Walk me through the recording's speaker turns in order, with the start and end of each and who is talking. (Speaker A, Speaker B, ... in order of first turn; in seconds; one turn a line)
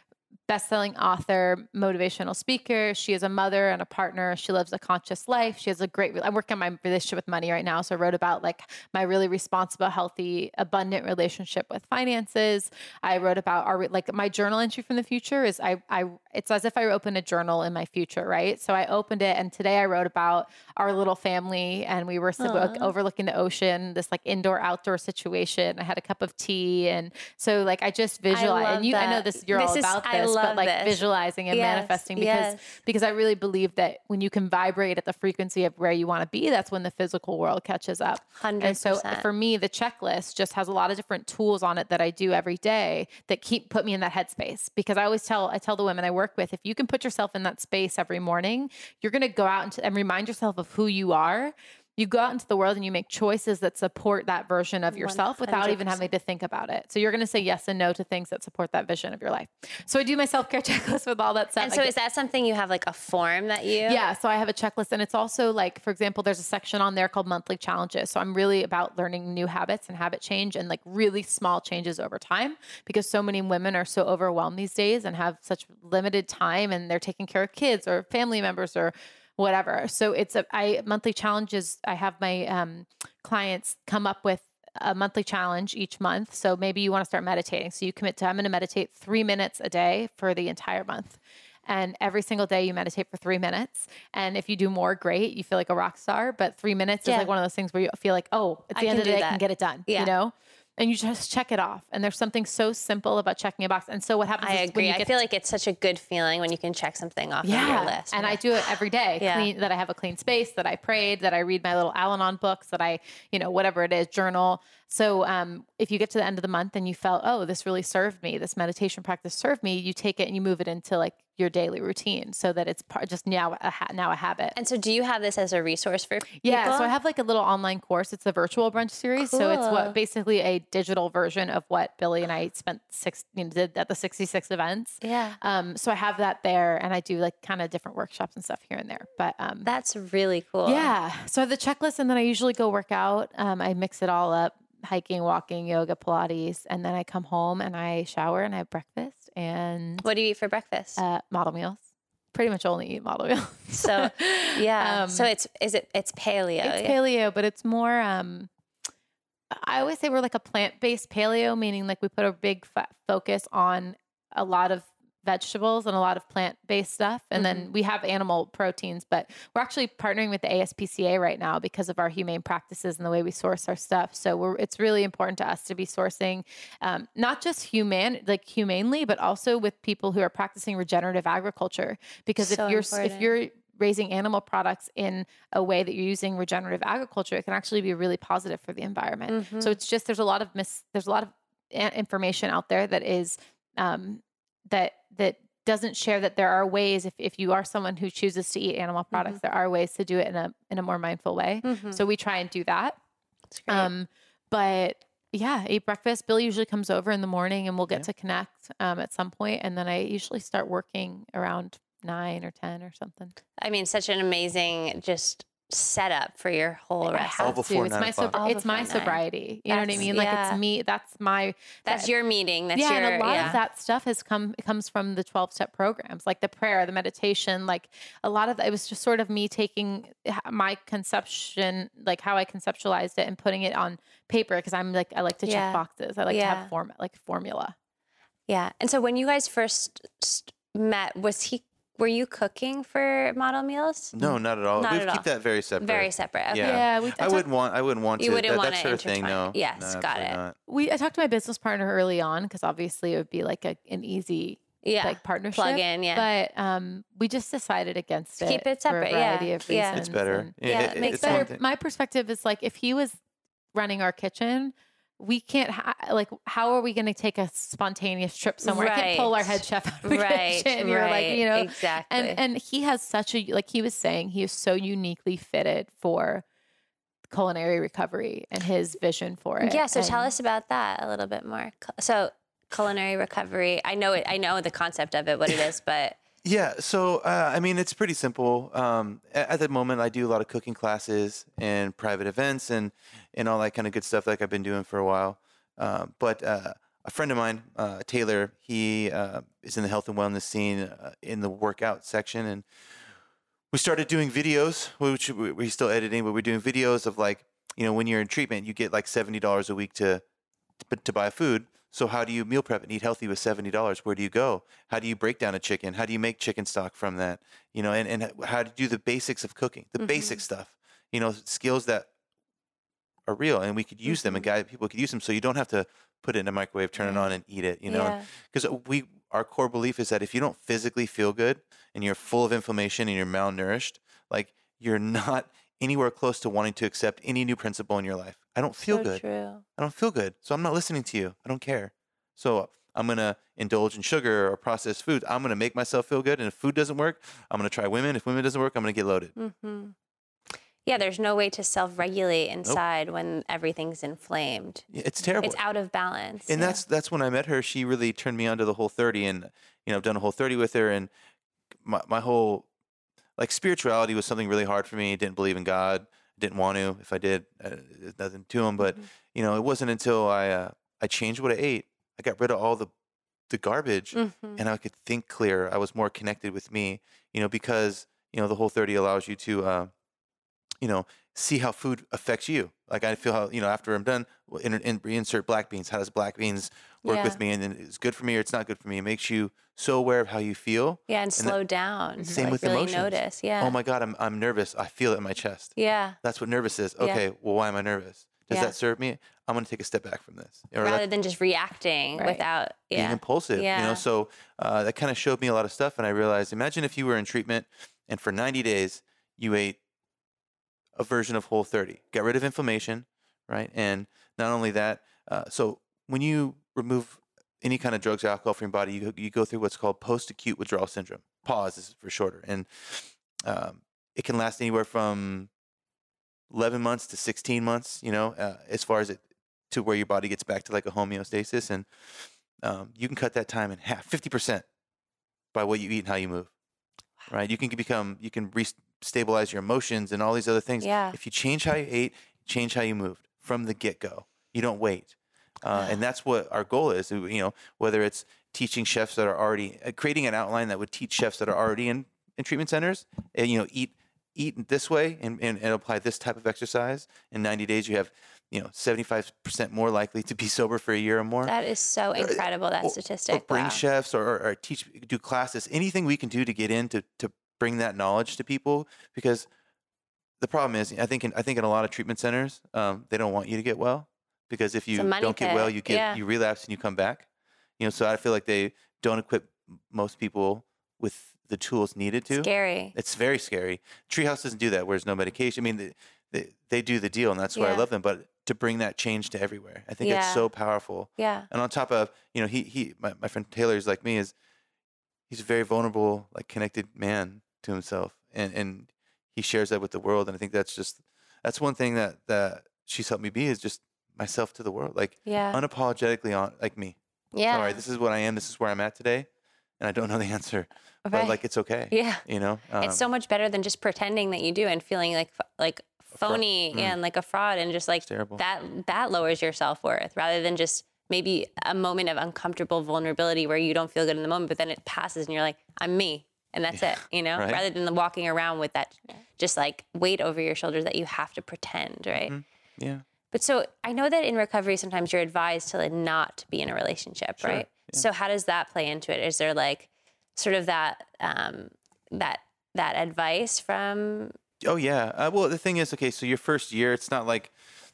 Speaker A: 0.5-61.9
Speaker B: 22.4-22.9
Speaker B: 28.3-32.8
Speaker B: 38.4-39.3
Speaker B: 54.9-56.1
Speaker B: 61.6-64.0
Speaker A: 63.9-105.1
Speaker B: 97.0-97.3
Speaker B: 98.7-100.1
Speaker B: 104.4-109.5
Speaker A: 107.4-124.5
Speaker B: 124.5-126.9
Speaker A: 126.4-139.7
Speaker B: 129.2-130.0
Speaker B: 135.0-135.4
Speaker B: 139.6-140.9
Speaker A: 140.7-150.1
Speaker B: 150.0-151.0
Speaker A: 151.0-151.8
Speaker A: 152.3-155.3
Speaker B: 153.7-157.0
Speaker A: 156.6-158.5
Speaker A: 159.5-203.0
Speaker B: 167.4-167.7
Speaker B: 182.4-183.3
Speaker B: 189.3-189.8
Speaker B: 201.6-202.0
Speaker B: 203.5-203.9
Speaker A: 203.7-213.3
Speaker B: 213.6-217.6
Speaker A: 217.0-222.1
Speaker C: 217.4-218.4
Speaker B: 218.3-220.6
Speaker B: 221.8-223.6
Speaker A: 222.7-237.7
Speaker C: 223.3-223.6
Speaker B: 235.4-236.7
Speaker B: 238.5-244.1
Speaker C: 244.1-250.5
Speaker B: 244.8-245.3
Speaker B: 245.8-246.8
Speaker A: 246.6-247.5
Speaker B: 248.2-250.4
Speaker A: 250.7-263.2
Speaker B: 254.8-256.3
Speaker B: 258.4-260.0
Speaker C: 259.9-261.6
Speaker B: 260.6-261.5
Speaker A: 263.7-276.4
Speaker B: 268.6-272.4
Speaker A: 277.3-280.3
Speaker B: 279.6-286.2
Speaker C: 286.4-302.6
Speaker C: 303.7-310.2
Speaker C: 310.8-322.1
Speaker B: 320.0-320.4
Speaker C: 323.2-339.2
Speaker B: 324.1-324.4
Speaker B: 327.9-328.3
Speaker B: 338.8-339.6
Speaker C: 339.8-349.3
Speaker B: 349.4-349.9
Speaker B: 350.9-354.9
Speaker C: 354.9-355.6
Speaker B: 355.4-356.8
Speaker C: 356.5-361.1
Speaker C: 361.8-362.7
Speaker C: 363.4-372.9
Speaker B: 368.8-369.0
Speaker C: 373.5-379.9
Speaker B: 374.1-374.6
Speaker C: 380.8-391.6
Speaker B: 387.0-387.4
Speaker B: 391.1-393.8
Speaker A: 392.2-392.4
Speaker C: 392.3-401.0
Speaker B: 395.8-396.2
Speaker B: 400.8-404.0
Speaker A: 402.2-402.4
Speaker C: 402.9-409.8
Speaker C: 410.9-425.5
Speaker C: 426.5-434.6
Speaker C: 435.5-436.5
Speaker C: 437.3-461.5
Speaker B: 440.8-441.1
Speaker B: 445.7-446.0
Speaker B: 461.4-463.8
Speaker C: 462.1-469.5
Speaker C: 470.4-477.2
Speaker B: 474.9-476.2
Speaker C: 477.8-494.3
Speaker B: 482.3-482.9
Speaker B: 487.5-487.9
Speaker B: 490.0-490.5
Speaker B: 491.2-491.5
Speaker C: 495.3-506.9
Speaker B: 505.2-505.6
Speaker B: 507.3-507.8
Speaker C: 507.5-509.3
Speaker C: 509.8-513.0
Speaker B: 511.1-511.4
Speaker B: 511.9-512.2
Speaker B: 512.8-532.3
Speaker C: 516.1-517.0
Speaker C: 518.0-518.4
Speaker C: 526.7-527.6
Speaker C: 532.1-533.0
Speaker B: 533.3-544.4
Speaker C: 537.4-538.0
Speaker C: 544.6-547.5